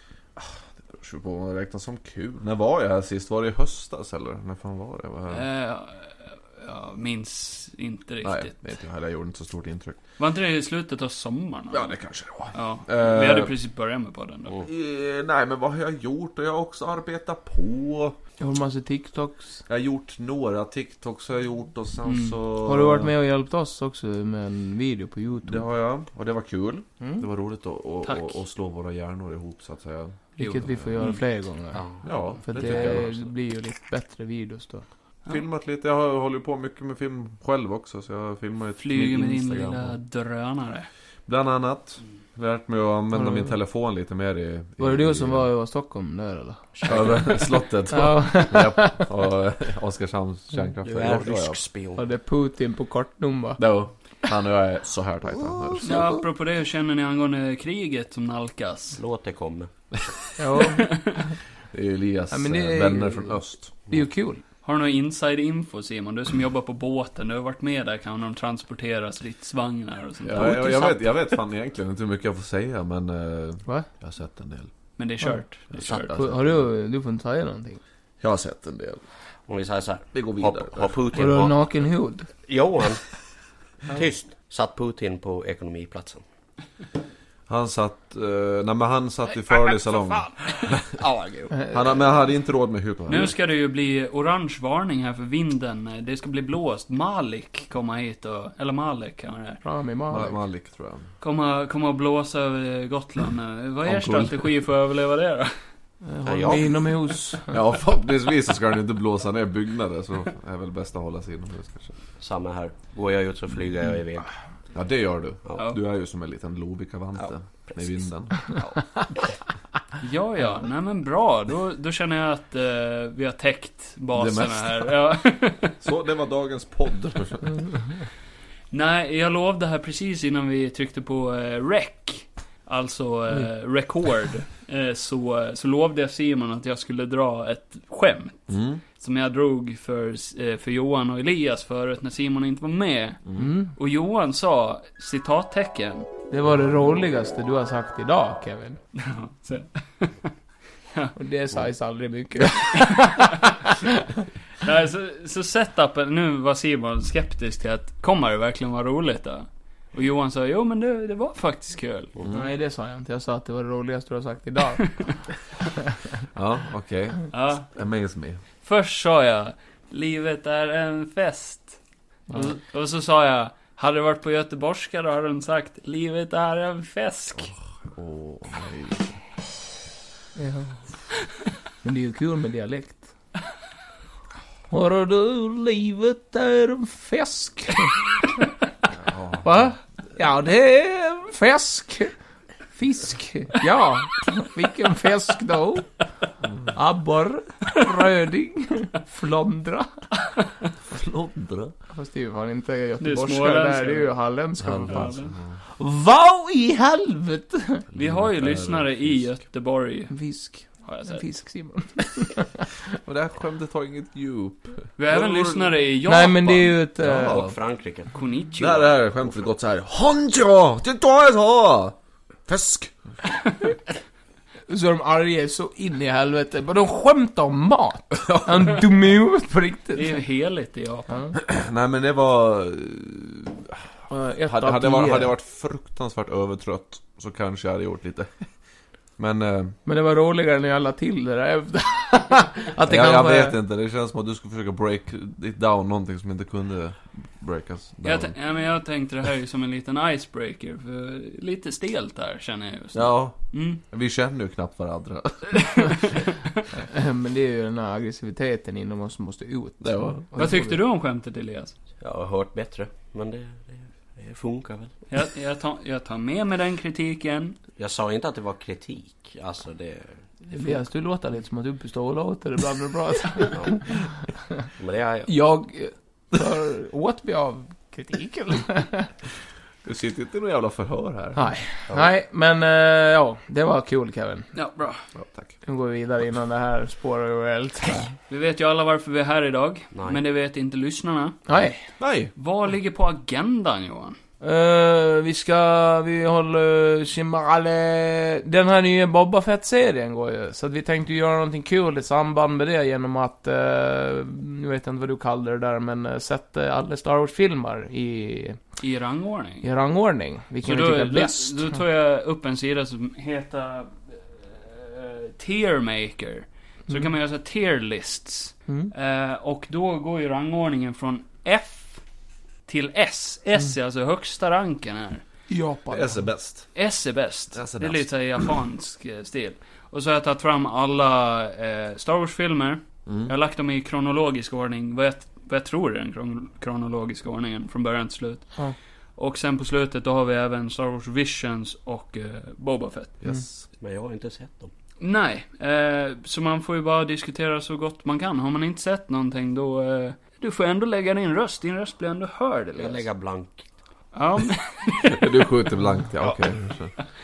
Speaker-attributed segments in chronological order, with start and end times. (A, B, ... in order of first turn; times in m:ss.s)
0:00.4-0:05.4 A
0:05.3-0:08.6 B
0:08.2-0:10.0 A
0:10.2-0:12.0 B
0:11.7-0:13.6 A
0:12.5-0:14.6 B
0:14.6-0:18.2 A
0:18.4-0:19.6 C
0:19.7-0:23.1 A
0:22.0-0:22.4 B
0:22.6-0:25.6 C
0:25.5-0:31.0 A
0:28.0-0:28.4 B
0:30.4-0:34.8 C
0:30.4-0:31.2 B
0:31.8-0:32.1 D
0:32.0-0:33.2 A
0:32.6-0:32.9 D
0:35.3-0:39.9 A
0:38.8-0:40.9 B
0:41.3-0:45.5 A
0:43.2-0:43.5 C
0:44.8-0:46.7 C
0:46.8-0:47.6 D
0:46.9-0:51.6 A
0:47.9-0:49.0 C
0:50.8-0:52.0 D
0:52.0-0:53.6 C
0:53.6-0:56.0 A
0:55.8-0:56.2 D
0:55.8-0:59.0 B
0:59.0-1:00.0 D
1:00.4-1:01.2 C
1:00.6-1:01.2 B
1:01.7-1:03.8 A
1:02.3-1:04.4 C
1:04.6-1:11.4 B
1:10.2-1:14.7 A
1:15.0-1:16.0 B
1:15.2-1:17.8 C
1:15.7-1:16.6 A
1:18.2-1:19.0 A
1:19.5-1:21.6 D
1:20.1-1:21.0 A
1:21.1-1:22.3 C
1:22.4-1:23.1 D
1:23.9-1:26.2 D
1:27.5-1:31.0 A
1:30.1-1:31.6 D
1:31.7-1:33.4 A
1:33.1-1:39.6 B
1:39.6-1:40.4 C
1:40.1-1:41.1 A
1:41.2-1:45.6 B
1:43.8-1:44.5 A
1:46.0-1:47.6 C
1:46.2-1:46.8 D
1:47.5-1:52.0 A
1:52.2-1:54.3 D
1:54.7-1:58.4 A
1:57.2-1:59.4 D
2:00.0-2:05.8 B
2:04.1-2:04.9 A
2:05.8-2:07.6 A
2:08.7-2:26.1 B
2:18.5-2:18.8 A
2:23.4-2:23.7 C
2:26.3-2:28.8 C
2:28.9-2:30.3 B
2:31.2-2:34.0 C
2:32.6-2:33.5 B
2:34.6-2:42.1 B
2:42.3-2:45.1 C
2:44.8-2:45.1 B
2:46.3-2:48.4 A
2:47.3-2:47.7 B
2:48.6-2:51.8 B
2:52.3-2:57.5 B
2:57.4-2:59.2 A
3:00.4-3:00.8 C
3:01.8-3:03.1 C
3:04.7-3:08.5 C
3:08.9-3:09.6 A
3:09.4-3:12.1 C
3:12.7-3:15.9 C
3:16.7-3:20.0 C
3:20.9-3:21.7 A
3:21.9-3:25.2 C
3:23.0-3:24.1 B
3:24.6-3:25.6 A
3:24.8-3:25.4 B
3:25.8-3:27.9 C
3:27.9-3:29.3 A
3:28.0-3:30.2 B
3:30.1-3:32.7 C
3:30.8-3:31.2 B
3:33.0-3:35.7 A
3:35.0-3:36.8 B
3:36.0-3:37.4 C
3:37.0-3:37.5 A
3:37.2-3:39.5 D
3:38.1-3:38.8 B
3:38.6-3:42.9 A
3:44.7-3:50.2 C
3:49.9-3:51.2 B
3:51.1-3:51.3 C
3:51.4-3:53.9 A
3:54.1-3:55.3 C
3:54.5-3:58.5 A
3:59.2-3:59.8 A
3:59.9-4:03.6 C
4:02.9-4:08.4 A
4:08.0-4:13.8 B
4:12.9-4:15.9 A
4:15.6-4:16.0 B
4:16.8-4:20.8 C
4:19.8-4:20.3 A
4:20.4-4:21.7 B
4:22.0-4:25.0 D
4:25.1-4:27.6 B
4:27.8-4:30.2 D
4:30.5-4:34.0 C
4:34.8-4:35.3 D
4:35.3-4:39.1 C
4:39.8-4:41.4 A
4:41.4-4:44.5 C
4:44.6-4:45.0 B
4:45.2-4:45.5 A
4:45.6-4:48.1 C
4:48.3-4:51.4 B
4:49.9-4:50.2 D
4:51.5-4:51.8 C
4:52.0-4:52.3 A
4:52.4-4:54.2 B
4:54.4-5:08.6 C
5:08.8-5:09.7 B
5:09.6-5:11.8 C
5:10.6-5:22.0 B
5:22.7-5:25.2 B
5:25.5-5:26.3 C
5:25.9-5:26.8 A
5:26.8-5:43.2 B
5:27.5-5:28.1 A
5:33.1-5:33.3 A
5:43.2-5:43.7 A
5:43.7-5:44.7 D
5:45.0-5:53.1 B
5:52.8-5:53.7 D
5:54.1-5:55.3 B
5:55.1-5:56.9 A